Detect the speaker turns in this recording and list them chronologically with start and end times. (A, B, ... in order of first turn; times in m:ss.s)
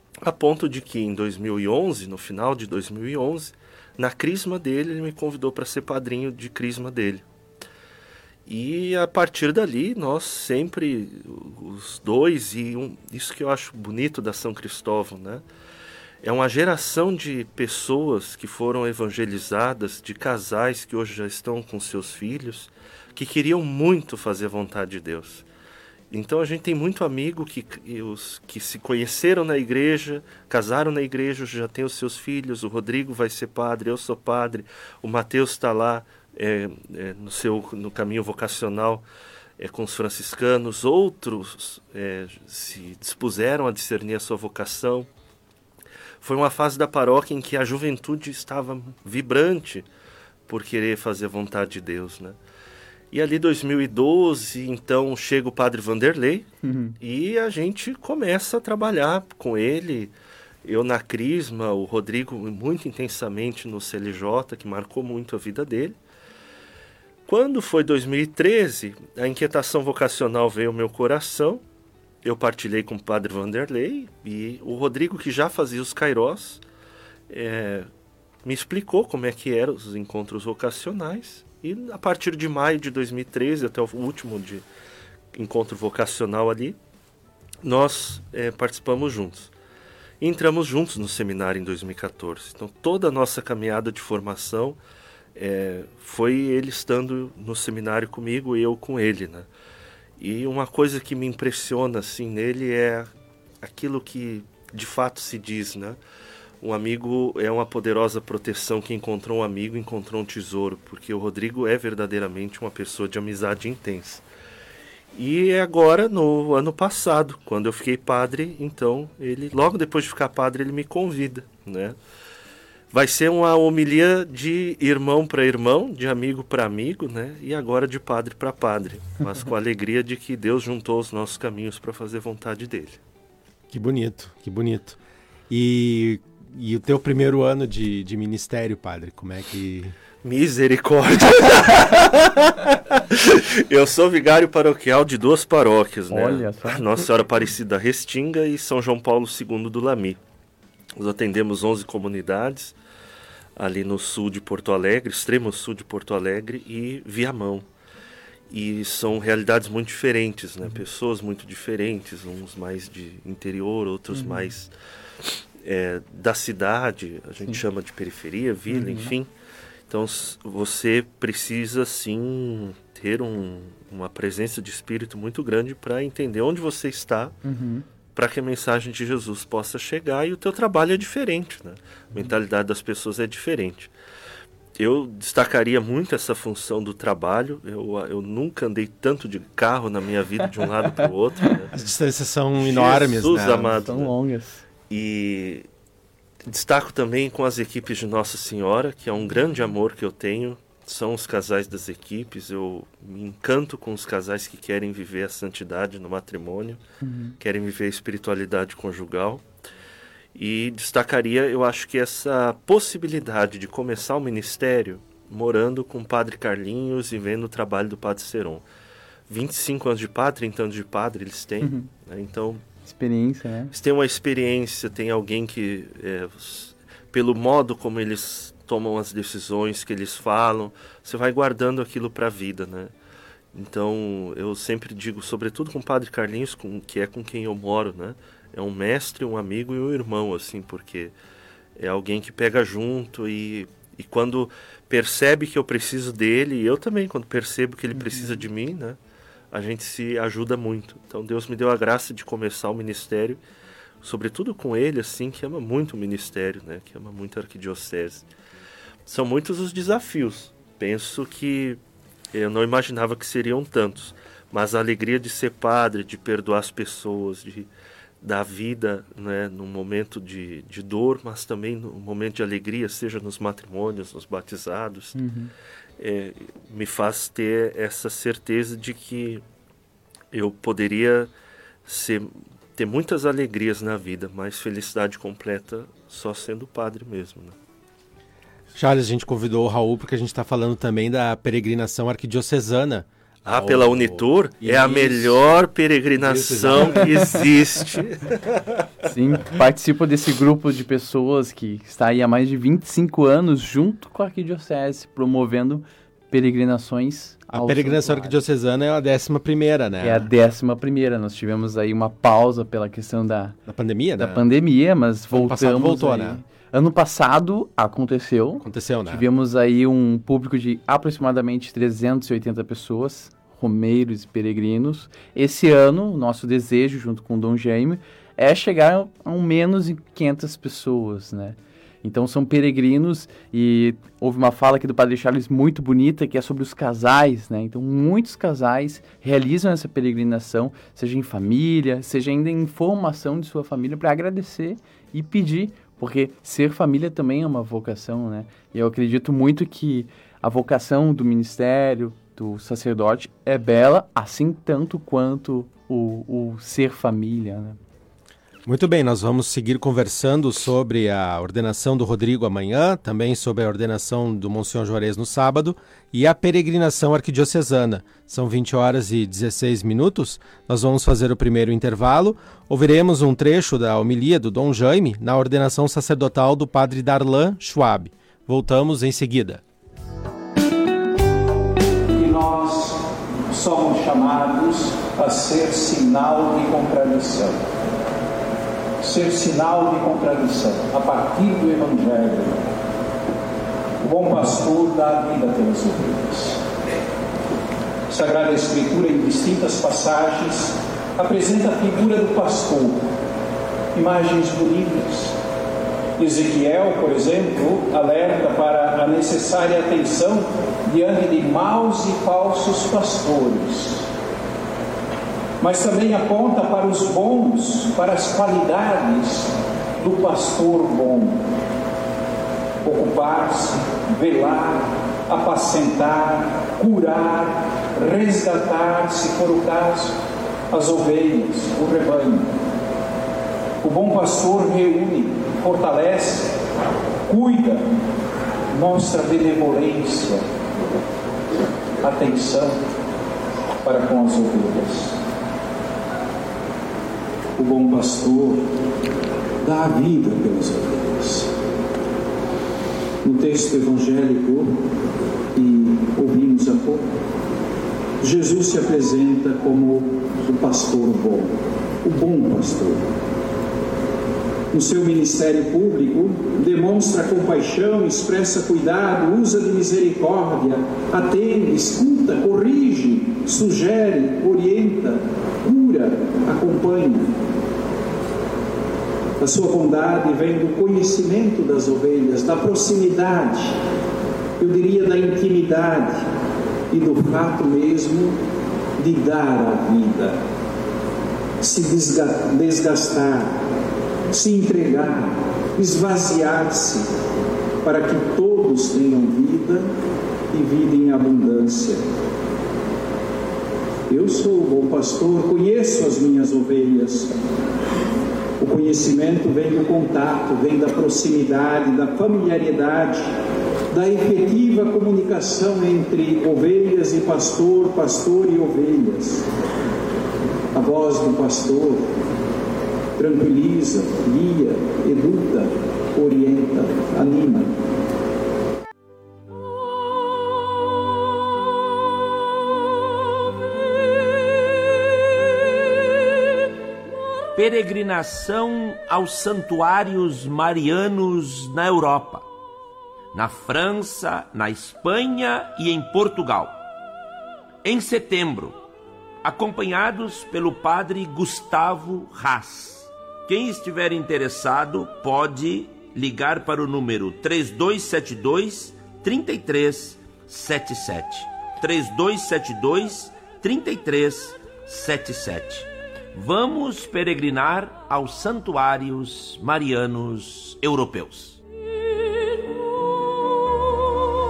0:00.2-0:07.2 A
0:08.5-0:15.4 A
0:16.2-0:25.4 A
0:26.1-0:39.1 A
0:39.6-0:45.1 A
0:46.2-0:49.9 A
0:50.5-0:52.4 A
0:53.1-0:56.5 A
0:56.6-0:57.0 B
0:57.0-1:06.0 A
1:07.3-1:11.6 A
1:12.2-1:16.6 A
1:17.3-1:17.9 A
1:18.4-1:24.6 A
1:25.3-1:26.8 A
1:27.6-1:29.5 A
1:30.2-1:34.8 A
1:35.4-1:39.5 A
1:40.2-1:43.1 A
1:43.6-1:46.0 A
1:46.6-1:54.2 A
1:55.2-2:02.0 A
2:02.9-2:13.0 A
2:13.7-2:15.0 C
2:15.5-2:19.9 C
2:20.2-2:30.2 A
2:26.1-2:26.8 B
2:31.0-2:32.8 A
2:33.6-2:37.7 A
2:38.5-2:44.7 A
2:44.1-2:44.5 B
2:45.2-2:49.3 A
2:48.7-2:49.1 B
2:49.9-2:57.4 A
2:57.4-2:57.8 B
2:58.2-3:03.9 A
3:04.8-3:11.7 A
3:11.7-3:13.8 C
3:12.6-3:14.1 A
3:13.8-3:14.6 B
3:14.9-3:15.7 A
3:16.5-3:26.8 A
3:27.0-3:27.4 B
3:27.4-3:29.5 A
3:30.4-3:38.6 A
3:39.3-3:42.6 A
3:41.6-3:41.9 B
3:42.9-3:43.7 B
3:43.7-3:52.9 A
3:53.5-4:01.1 A
4:01.8-4:09.0 A
4:08.0-4:08.4 B
4:09.5-4:13.4 A
4:14.0-4:18.3 A
4:19.1-4:21.8 A
4:22.3-4:27.7 A
4:28.2-4:35.2 A
4:35.2-4:35.5 B
4:36.0-4:39.4 A
4:40.3-4:41.3 A
4:41.9-4:47.6 A
4:48.8-4:55.4 C
4:53.4-4:58.6 A
4:56.2-4:57.2 C
4:59.0-5:08.4 B
5:07.5-5:10.3 C
5:10.0-5:13.6 B
5:13.7-5:14.4 C
5:14.2-5:57.8 B
5:15.3-5:16.4 C
5:18.6-5:19.2 C
5:58.7-6:19.6 C
6:22.1-6:27.6 D
6:29.0-6:32.7 D
6:34.0-6:36.6 D
6:38.1-6:43.1 D
6:43.9-6:45.4 D
6:46.2-6:54.0 D
6:55.6-7:01.4 D
7:02.8-7:10.2 D
7:10.7-7:12.5 D
7:13.8-7:16.6 D
7:17.3-7:17.9 D
7:18.7-7:20.4 D
7:22.0-7:22.8 D
7:23.8-7:25.2 D
7:27.6-7:28.7 D
7:29.6-7:31.5 D
7:33.2-7:34.8 D
7:35.6-7:37.1 D
7:38.2-7:43.1 D
7:44.7-7:57.4 D
7:59.4-8:03.8 D
8:04.6-8:06.3 D
8:06.9-8:08.4 D
8:09.0-8:10.4 D
8:11.6-8:13.6 D
8:14.3-8:17.1 D
8:17.8-8:19.9 D
8:20.5-8:22.0 D
8:24.1-8:27.4 D
8:28.6-8:33.3 D
8:33.9-8:39.5 D
8:40.7-8:42.1 D
8:43.2-8:47.8 D
8:57.6-9:02.4 E
9:03.3-9:06.8 E
9:07.8-9:08.8 E
9:09.4-9:31.6 E